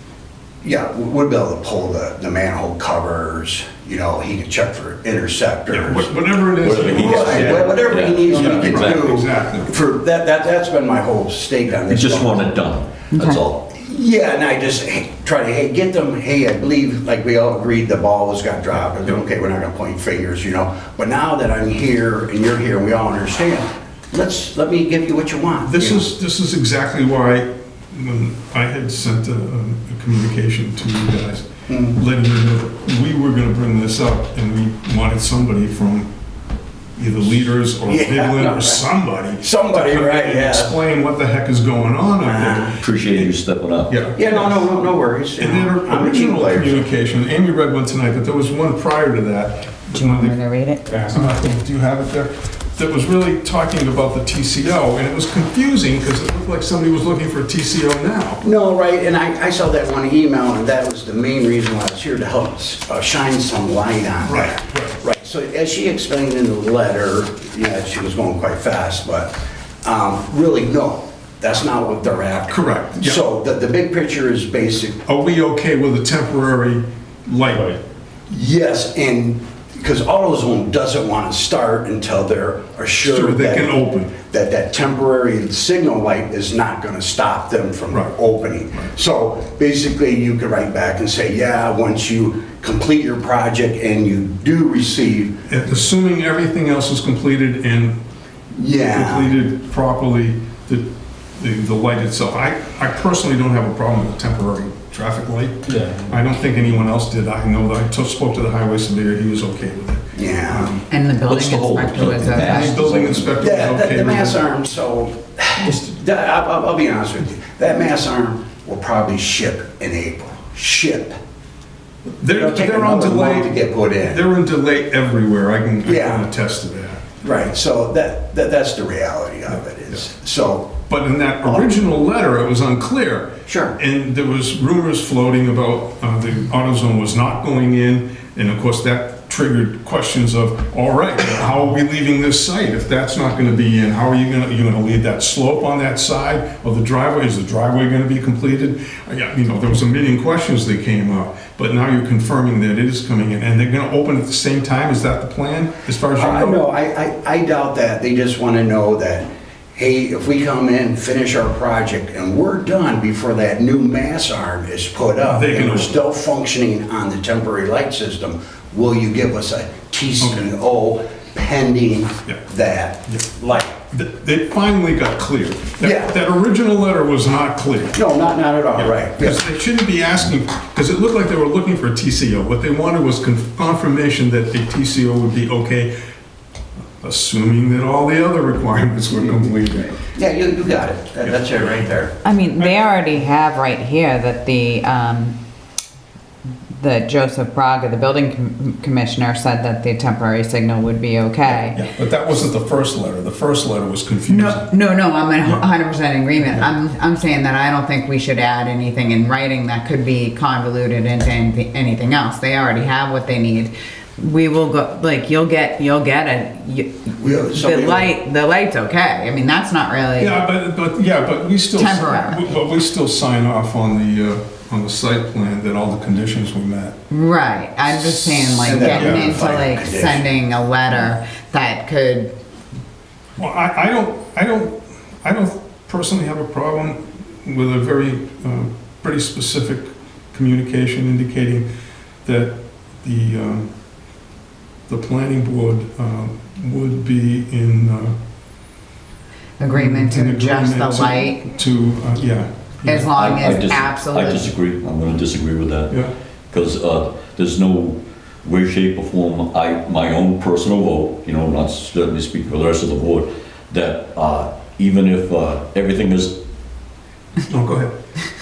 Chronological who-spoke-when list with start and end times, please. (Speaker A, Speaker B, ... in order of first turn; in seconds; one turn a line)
Speaker A: 0.6-6.1
Speaker B: 5.7-9.7
Speaker C: 6.6-9.1
Speaker A: 6.7-12.6
Speaker C: 11.9-13.6
Speaker D: 13.1-13.4
Speaker A: 13.7-26.1
Speaker B: 25.7-36.1
Speaker A: 31.7-32.0
Speaker B: 37.0-42.8
Speaker A: 37.9-38.8
Speaker A: 39.4-40.8
Speaker A: 42.2-42.8
Speaker C: 42.8-44.0
Speaker B: 43.9-44.7
Speaker A: 44.1-46.9
Speaker B: 45.4-50.4
Speaker D: 49.9-50.9
Speaker B: 50.9-58.4
Speaker A: 58.4-75.0
Speaker B: 64.2-65.0
Speaker B: 72.5-73.2
Speaker B: 75.0-77.8
Speaker A: 78.3-95.3
Speaker B: 83.0-84.1
Speaker B: 95.5-98.0
Speaker A: 98.5-99.3
Speaker B: 98.8-110.8
Speaker A: 110.2-110.8
Speaker D: 110.9-112.8
Speaker C: 111.2-113.4
Speaker B: 112.3-114.4
Speaker A: 113.4-121.2
Speaker B: 122.2-127.0
Speaker A: 122.3-124.2
Speaker A: 125.8-126.3
Speaker A: 127.2-130.7
Speaker B: 130.9-156.6
Speaker A: 133.4-133.8
Speaker A: 156.2-173.8
Speaker B: 165.3-165.9
Speaker B: 170.2-170.5
Speaker B: 173.9-178.0
Speaker A: 175.8-176.2
Speaker A: 177.9-179.4
Speaker B: 178.8-185.9
Speaker B: 187.0-190.0
Speaker A: 189.3-192.2
Speaker D: 192.2-195.4
Speaker D: 196.8-201.8
Speaker B: 201.7-204.7
Speaker D: 204.3-220.4
Speaker A: 217.2-218.1
Speaker B: 220.2-227.0
Speaker D: 221.7-222.5
Speaker D: 227.1-232.3
Speaker B: 228.0-229.4
Speaker A: 228.6-230.3
Speaker B: 233.4-241.7
Speaker B: 242.2-243.7
Speaker B: 244.9-248.2
Speaker D: 249.6-251.4
Speaker B: 249.7-253.1
Speaker D: 252.8-254.5
Speaker C: 253.1-255.9
Speaker C: 256.5-266.3
Speaker B: 267.5-267.9